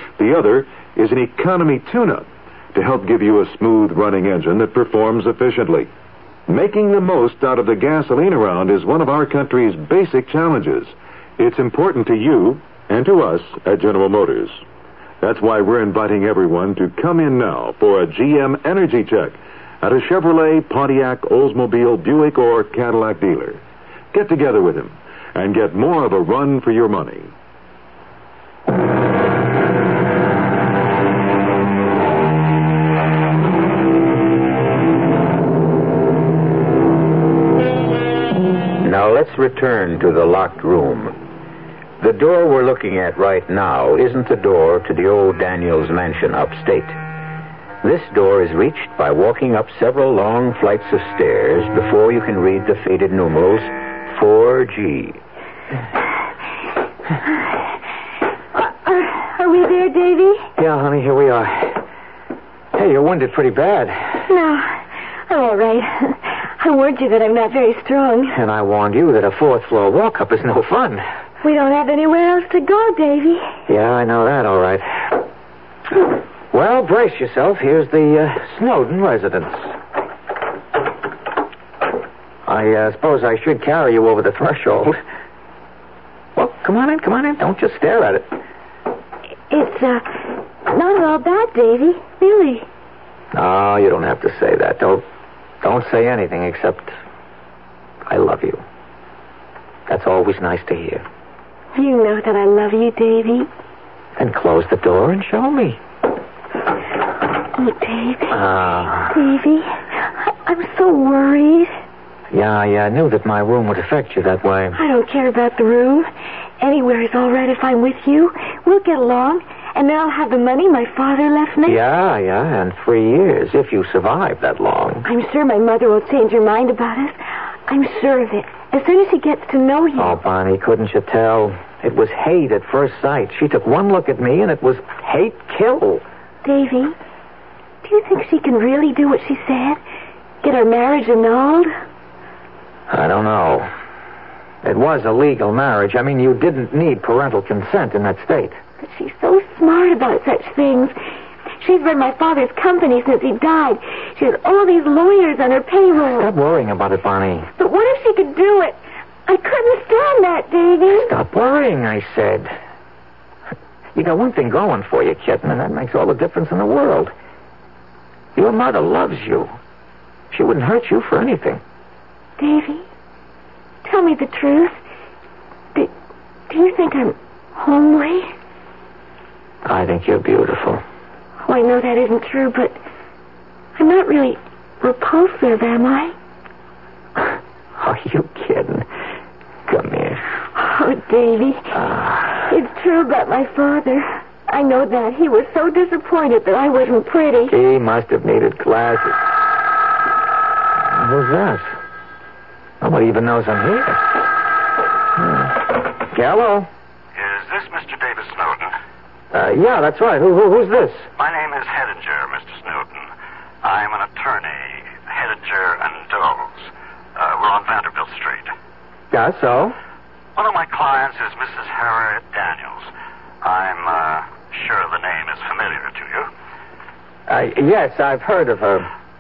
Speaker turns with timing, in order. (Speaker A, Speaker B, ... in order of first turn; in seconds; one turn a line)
Speaker A: 0.2-5.9
Speaker A: 6.5-14.6
Speaker A: 15.2-23.6
Speaker A: 24.1-27.3
Speaker B: 38.8-41.2
Speaker B: 42.0-47.0
Speaker B: 47.8-55.2
Speaker C: 58.5-60.5
Speaker D: 60.6-61.8
Speaker D: 62.7-64.2
Speaker C: 64.2-68.4
Speaker D: 68.3-71.0
Speaker C: 71.4-73.5
Speaker D: 73.7-75.2
Speaker D: 76.5-79.7
Speaker D: 82.5-85.0
Speaker D: 86.4-88.4
Speaker C: 89.5-92.7
Speaker D: 93.3-95.0
Speaker D: 95.6-97.0
Speaker D: 98.1-98.6
Speaker D: 99.9-101.0
Speaker C: 101.7-103.5
Speaker D: 104.2-105.8
Speaker C: 107.5-108.4
Speaker D: 108.3-109.2
Speaker C: 109.1-111.8
Speaker D: 112.3-114.8
Speaker C: 114.8-116.1
Speaker C: 116.6-121.8
Speaker D: 121.7-125.1
Speaker C: 125.0-130.2
Speaker D: 130.0-136.0
Speaker C: 136.4-136.9
Speaker C: 137.8-139.8
Speaker C: 140.4-141.7
Speaker D: 142.9-143.7
Speaker D: 144.6-148.6
Speaker C: 148.8-150.9
Speaker C: 151.6-156.3
Speaker D: 156.0-157.5
Speaker C: 157.6-161.1
Speaker D: 160.9-162.5
Speaker D: 163.9-167.1
Speaker D: 168.3-169.5
Speaker D: 170.3-171.6
Speaker C: 172.4-172.8
Speaker C: 173.8-174.8
Speaker C: 176.5-178.3
Speaker D: 179.7-180.8
Speaker C: 181.4-182.8
Speaker C: 183.8-186.2
Speaker D: 187.8-188.9
Speaker D: 189.7-190.2
Speaker C: 190.6-191.8
Speaker D: 191.7-192.5
Speaker C: 192.5-197.5
Speaker D: 197.5-199.2
Speaker D: 200.9-201.8
Speaker D: 202.8-204.3
Speaker D: 205.2-206.7
Speaker E: 207.2-208.7
Speaker D: 209.3-211.1
Speaker E: 211.2-213.1
Speaker E: 213.6-218.5
Speaker D: 219.1-219.8
Speaker E: 220.4-222.9
Speaker E: 223.4-226.3
Speaker D: 227.3-228.9